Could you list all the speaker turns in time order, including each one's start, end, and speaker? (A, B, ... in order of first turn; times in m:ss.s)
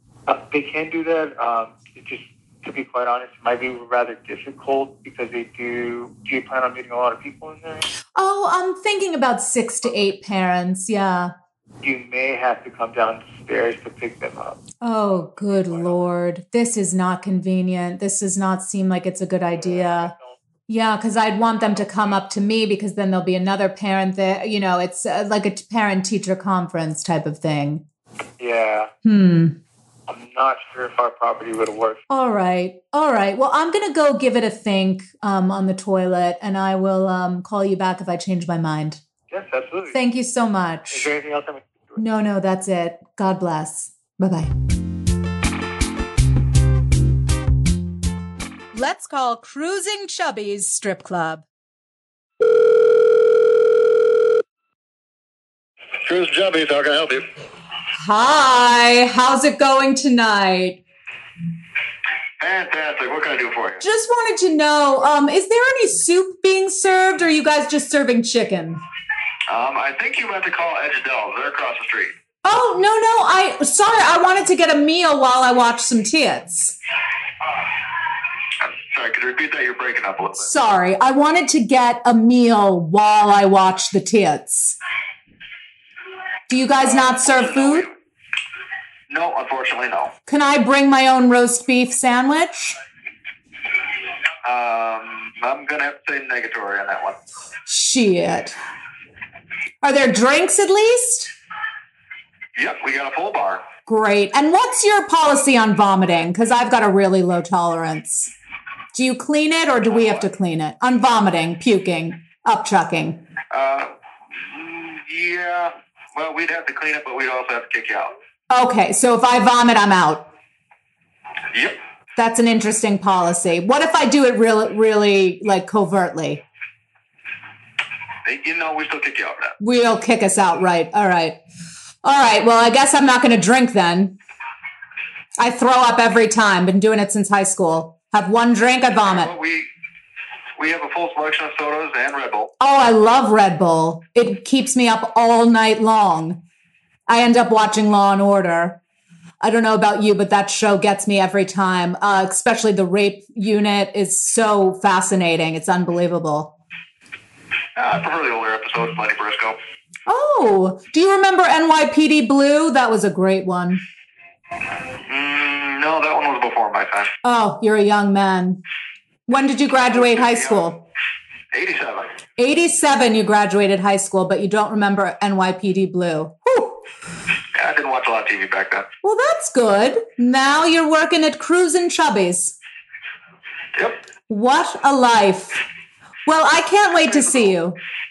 0:00.3-0:07.9 A
0:08.1-0:11.3 B
0:11.8-0:14.6 A
0:14.8-0:20.1 B
0:15.1-0:16.0 A
0:19.5-0:20.4 A
0:20.7-0:27.8 B
0:28.4-0:28.9 A
0:29.0-0:29.6 B
0:30.1-0:32.0 A
0:32.1-0:39.0 B
0:39.3-0:40.0 A
0:39.9-0:41.1 B
0:40.9-0:42.0 A
0:42.0-0:44.5 B
0:48.7-0:51.4 B
0:57.9-1:00.8 B
1:02.4-1:03.8 C
1:03.8-1:08.8 B
1:09.5-1:12.1 C
1:12.4-1:16.7 B
1:18.6-1:20.4 C
1:20.4-1:24.8 B
1:26.5-1:27.9 B
1:26.8-1:27.9 C
1:29.1-1:30.1 C
1:30.3-1:32.8 B
1:34.4-1:37.2 C
1:37.7-1:38.6 B
1:39.8-1:41.3 B
1:42.6-1:43.6 C
1:43.8-1:48.3 B
1:48.9-1:53.2 B
1:53.5-1:58.1 C
1:58.5-2:00.2 B
2:01.5-2:01.8 C
2:02.2-2:06.4 B
2:08.2-2:09.5 C
2:09.6-2:11.4 B
2:12.0-2:14.2 B
2:15.4-2:19.3 B
2:19.1-2:19.7 C
2:20.6-2:22.5 C
2:22.6-2:26.4 B
2:27.1-2:28.8 B
2:29.4-2:36.5 B
2:37.8-2:39.6 C
2:40.1-2:43.8 B
2:45.0-2:47.1 C
2:47.2-2:48.6 B
2:49.3-2:50.8 B
2:49.9-2:50.5 C
2:51.5-2:52.2 C
2:52.4-2:56.8 B
2:57.5-2:58.8 C
2:59.0-3:02.5 B
3:03.8-3:04.0 C
3:04.3-3:05.6 B
3:06.2-3:07.8 B